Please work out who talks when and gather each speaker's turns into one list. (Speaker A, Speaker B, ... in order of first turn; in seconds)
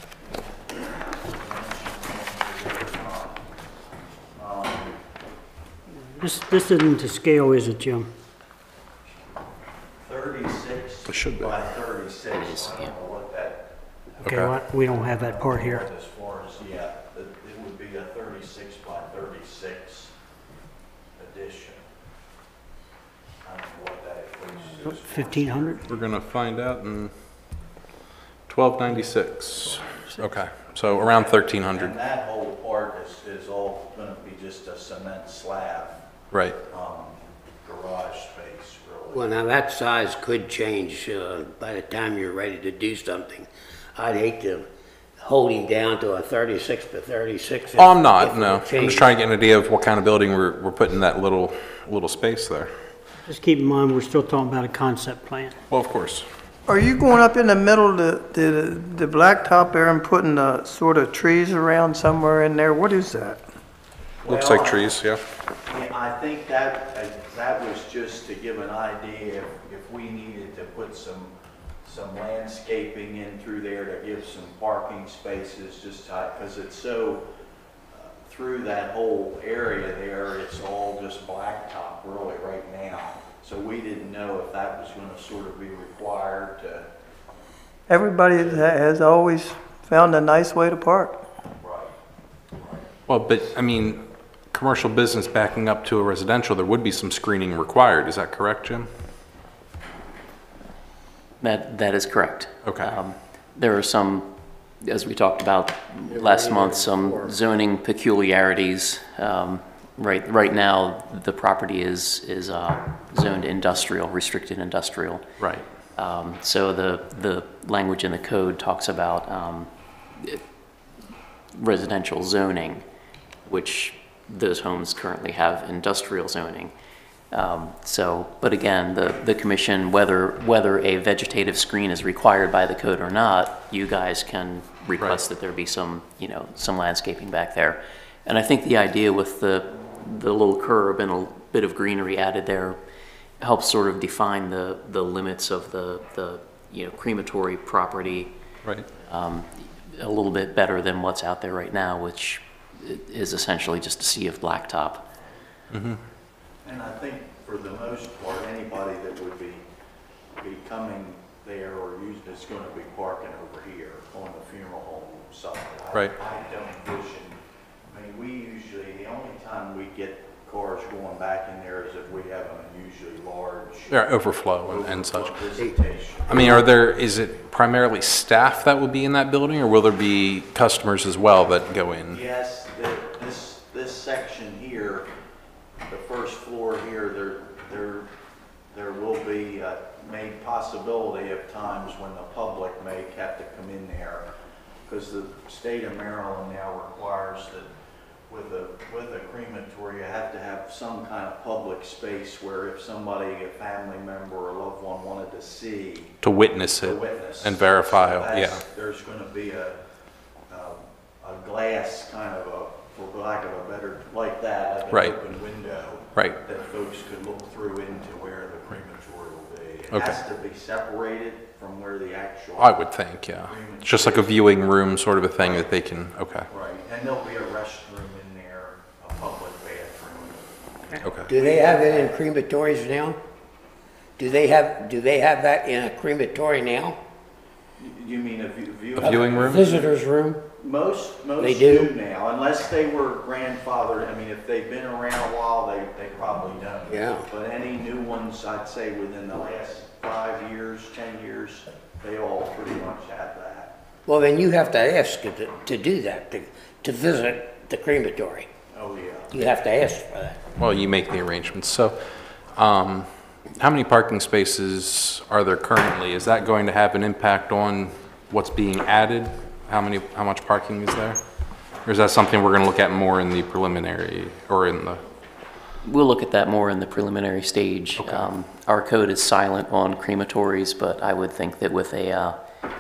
Speaker A: 0.7-3.4, 4.3-5.0, 10.0-13.7, 14.8-20.1, 21.2-21.8, 23.4-25.9, 30.9-36.0, 36.7-39.3, 64.2-64.9, 65.7-77.2, 77.9-86.8, 91.6-91.9, 92.5-92.9, 156.6-159.6, 160.4-167.3, 167.9-173.9, 174.6-176.7, 182.1-185.1, 185.9-188.1, 188.7-194.3, 194.9-197.7, 198.3-206.1, 206.8-209.8, 210.5-222.8, 223.5-224.4, 225.4-225.7, 226.5-230.4, 231.3-232.2, 237.8-240.0, 240.6-253.7, 258.7-259.5
Speaker B: 6.1-8.1, 14.2-15.9, 24.9-25.9, 53.3-55.5
Speaker C: 11.1-11.5, 14.2-14.5, 25.9-27.1, 28.5-31.9, 36.3-36.6, 47.8-52.7, 55.7-56.3, 64.3-65.2, 93.1-98.9, 102.6-102.9, 115.4-115.6, 155.7-156.0, 173.9-175.4, 176.3-182.2, 206.2-208.6, 214.9-215.2, 219.9-220.2, 222.6-226.5, 231.0-231.3, 238.9-239.7, 260.6-262.0, 262.5-271.2, 271.8-275.0, 278.0-278.3
Speaker D: 12.5-12.8, 101.4-115.2, 116.0-120.4, 121.5-122.8, 123.5-126.7, 127.3-142.8, 143.4-148.3, 149.1-155.1, 275.8-282.4
Speaker E: 39.1-44.7, 45.2-49.2, 106.1-107.4, 176.3-176.6, 231.3-233.2, 234.2-237.0, 239.0-240.4, 241.4-241.9, 246.9-247.3, 254.1-258.5, 259.3-260.4
Speaker F: 56.7-63.4, 87.9-91.2